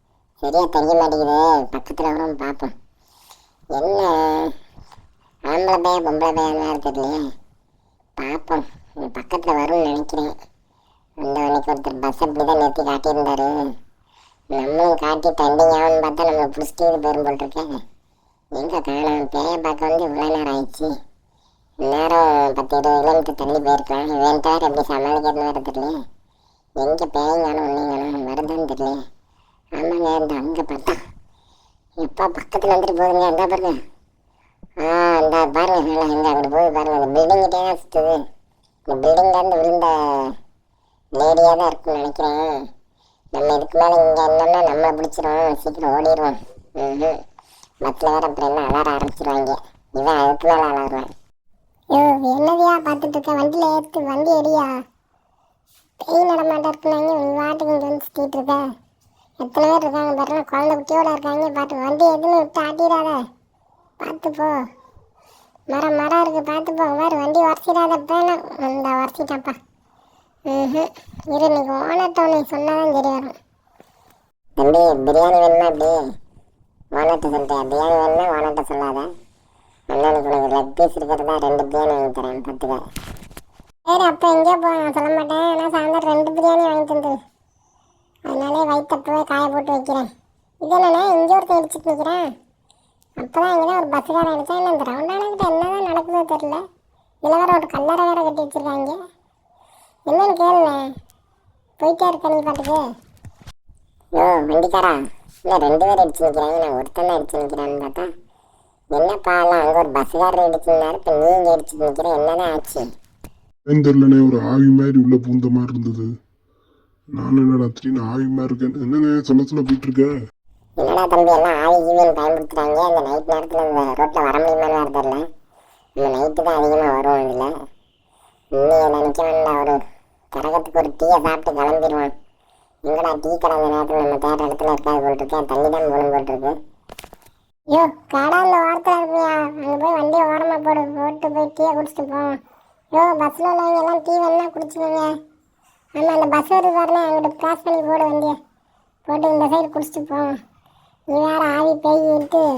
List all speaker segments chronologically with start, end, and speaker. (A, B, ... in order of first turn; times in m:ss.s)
0:00.4-0:02.7 A
0:03.7-0:04.5 A
0:05.5-0:07.2 A
0:08.2-0:10.3 A
0:11.2-0:13.6 A
0:14.5-0:17.7 A
0:18.5-0:20.9 A
0:21.8-0:25.9 A
0:26.8-0:29.0 A
0:29.7-0:31.0 A
0:32.0-0:33.8 A
0:34.8-0:38.2 A
0:38.9-0:40.3 A
0:41.1-0:42.5 A
0:43.3-0:47.2 A
0:47.8-0:51.1 A
0:51.9-0:54.7 B
0:56.0-0:58.6 B
0:59.4-1:03.2 B
1:04.0-1:04.6 B
1:05.7-1:09.5 B
1:10.5-1:13.2 B
1:14.6-1:16.0 A
1:16.9-1:19.1 A
1:19.9-1:22.8 A
1:23.9-1:27.1 B
1:28.3-1:30.0 B
1:30.6-1:32.2 B
1:33.2-1:36.6 B
1:37.2-1:38.9 B
1:40.1-1:40.9 B
1:41.8-1:42.8 B
1:44.1-1:48.1 A
1:48.9-1:52.8 A
1:53.7-1:56.1 C
1:57.1-2:00.2 C
2:00.8-2:05.3 A
2:06.0-2:07.5 A
2:08.5-2:09.8 A
2:10.3-2:12.1 A
2:12.8-2:16.6 A
2:18.0-2:22.2 A
2:23.0-2:25.0 A
2:26.0-2:27.4 A
2:29.1-2:30.1 A
2:31.1-2:31.8 A
2:32.0-2:32.4 B